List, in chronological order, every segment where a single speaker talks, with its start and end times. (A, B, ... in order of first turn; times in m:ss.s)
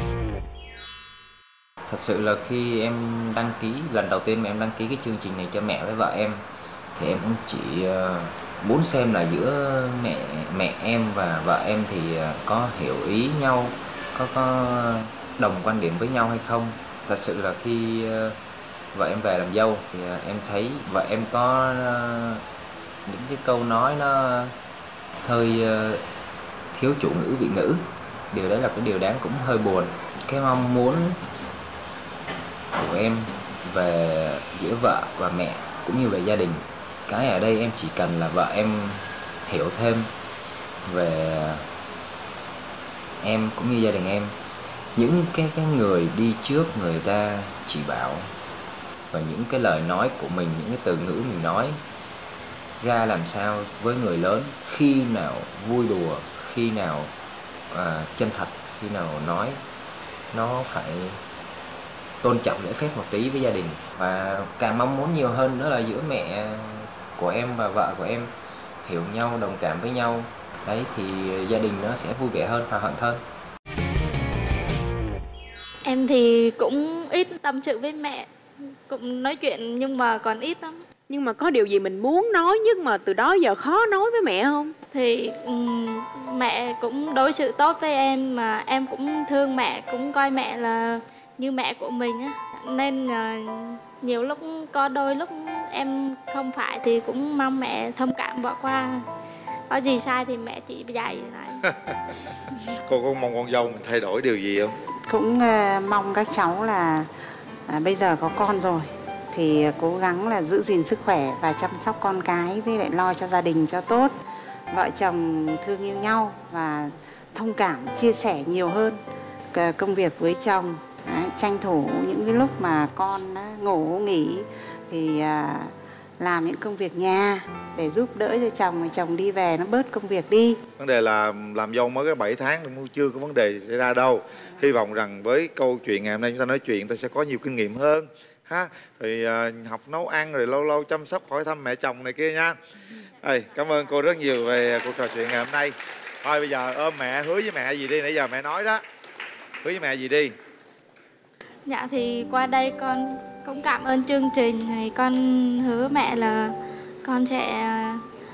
0:01.9-0:06.4 A
0:07.0-0:18.4 A
0:18.9-0:22.4 A
0:23.0-0:24.5 A
0:25.2-0:26.0 A
0:26.7-0:31.2 A
0:32.8-0:40.1 A
0:40.8-0:41.6 A
0:43.2-0:44.3 A
0:44.9-0:48.3 A
0:49.1-0:51.8 A
0:52.8-0:57.1 A
0:57.7-0:59.6 A
1:00.3-1:01.2 A
1:02.2-1:08.3 A
1:08.8-1:13.2 A
1:15.8-1:18.3 B
1:18.9-1:20.8 B
1:21.1-1:24.7 C
1:24.9-1:39.0 B
1:39.7-1:41.6 B
1:41.7-1:41.9 D
1:42.8-1:44.7 D
1:45.1-1:47.1 E
1:47.7-1:54.1 E
1:54.7-1:59.0 E
1:59.5-2:10.6 E
2:10.8-2:22.6 D
2:23.2-2:28.8 D
2:29.6-2:30.3 D
2:31.6-2:38.0 B